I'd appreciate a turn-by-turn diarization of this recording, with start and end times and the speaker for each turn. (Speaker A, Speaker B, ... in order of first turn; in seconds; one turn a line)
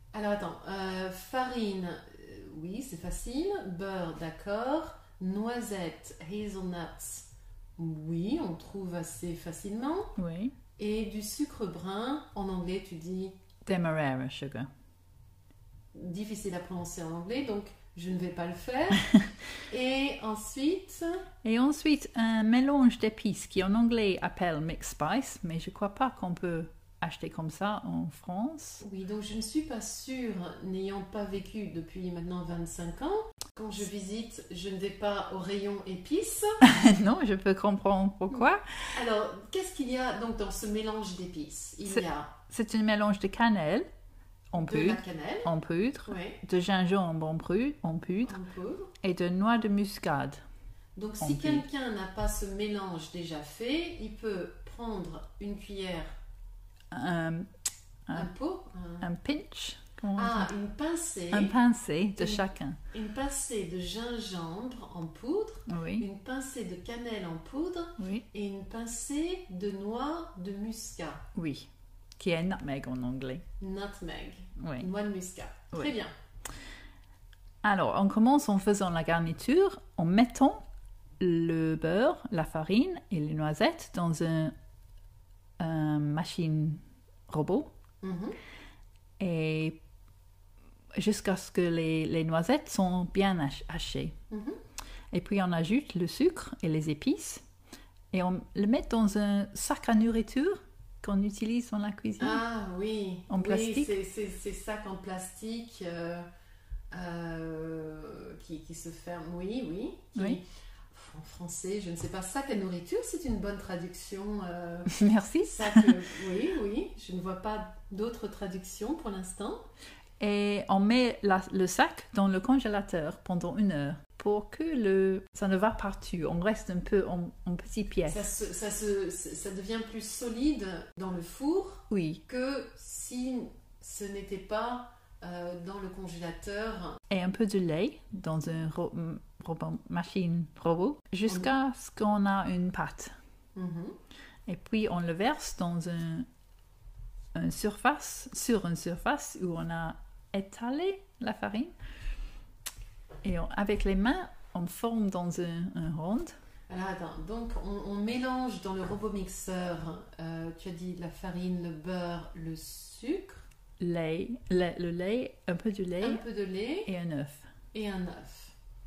Speaker A: 0.1-10.2
Speaker B: 10.2-10.5
Speaker A: 10.8-13.3
Speaker B: 13.7-14.7
Speaker A: 15.9-19.1
Speaker A: 19.7-21.2
Speaker B: 21.4-28.8
Speaker A: 28.8-36.6
Speaker B: 36.6-38.6
Speaker A: 38.9-42.3
Speaker B: 41.9-43.9
Speaker B: 44.5-48.4
Speaker A: 44.5-45.5
Speaker A: 46.1-46.4
Speaker A: 48.2-48.9
Speaker B: 49.0-50.4
Speaker A: 51.0-56.1
Speaker B: 51.2-51.6
Speaker B: 56.9-57.5
Speaker A: 58.1-59.0
Speaker B: 59.0-60.5
Speaker A: 60.1-61.5
Speaker B: 61.3-62.8
Speaker A: 62.2-71.2
Speaker B: 65.7-66.0
Speaker B: 68.0-68.2
Speaker B: 71.3-73.4
Speaker A: 73.6-76.1
Speaker B: 74.6-74.9
Speaker B: 77.6-80.6
Speaker B: 81.2-84.5
Speaker B: 85.6-87.7
Speaker A: 88.0-88.4
Speaker B: 89.2-89.8
Speaker B: 91.0-94.1
Speaker A: 94.3-94.6
Speaker B: 95.1-97.4
Speaker B: 98.1-102.4
Speaker A: 102.2-106.3
Speaker B: 103.3-103.9
Speaker A: 106.9-119.6
Speaker B: 110.1-110.4
Speaker B: 114.9-115.9
Speaker B: 120.2-128.3
Speaker A: 128.1-137.0
Speaker B: 131.9-132.2
Speaker B: 137.1-143.1
Speaker A: 143.5-144.0
Speaker B: 144.5-146.3
Speaker B: 147.3-151.7
Speaker B: 153.2-156.3
Speaker A: 156.7-163.4
Speaker B: 163.8-166.2
Speaker A: 166.0-166.9
Speaker B: 166.9-167.5
Speaker A: 167.7-168.5